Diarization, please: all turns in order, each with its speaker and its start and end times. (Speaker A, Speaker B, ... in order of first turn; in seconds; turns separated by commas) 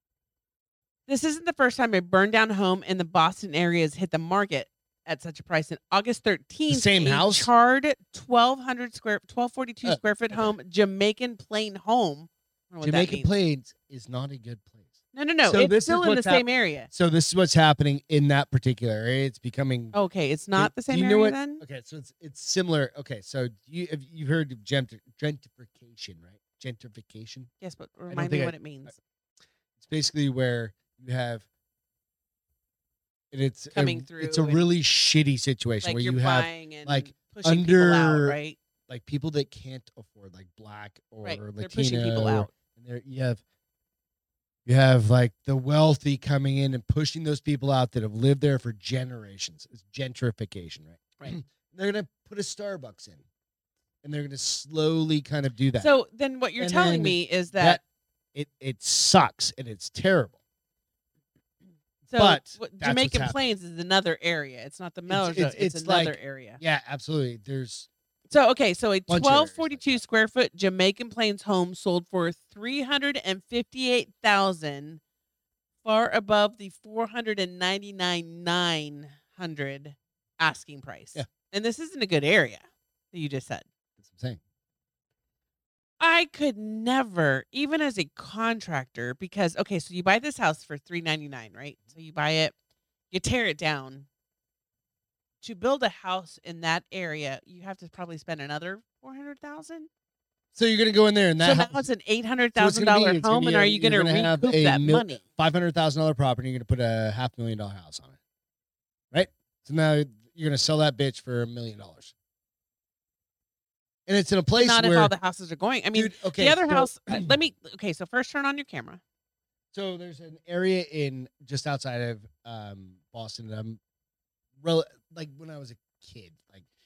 Speaker A: 1.1-13.3, Speaker B: 6.7-7.5, Speaker B: 9.8-10.4, Speaker B: 12.8-14.9, Speaker A: 15.1-16.9, Speaker B: 15.4-19.9, Speaker A: 19.9-21.6, Speaker B: 20.6-27.5, Speaker A: 27.6-28.9, Speaker B: 28.1-28.9, Speaker B: 29.8-31.4, Speaker B: 33.3-38.4, Speaker A: 33.7-34.6, Speaker A: 35.8-38.6, Speaker B: 38.9-43.4, Speaker A: 41.2-42.5, Speaker B: 44.6-53.2, Speaker B: 54.0-55.9, Speaker A: 55.8-57.8, Speaker B: 56.6-57.8, Speaker B: 58.3-60.4, Speaker A: 62.1-66.6, Speaker B: 62.1-63.3, Speaker B: 65.1-67.9, Speaker A: 68.3-75.0, Speaker B: 69.1-70.0, Speaker A: 75.8-83.7, Speaker B: 84.0-84.4, Speaker A: 86.0-92.5, Speaker A: 93.1-94.1, Speaker A: 95.4-99.9, Speaker B: 100.5-101.8, Speaker A: 101.4-105.2, Speaker B: 102.5-108.2, Speaker B: 109.1-112.1, Speaker B: 114.1-115.1, Speaker A: 114.5-119.0, Speaker B: 115.9-117.3, Speaker B: 119.7-123.8, Speaker B: 124.6-126.6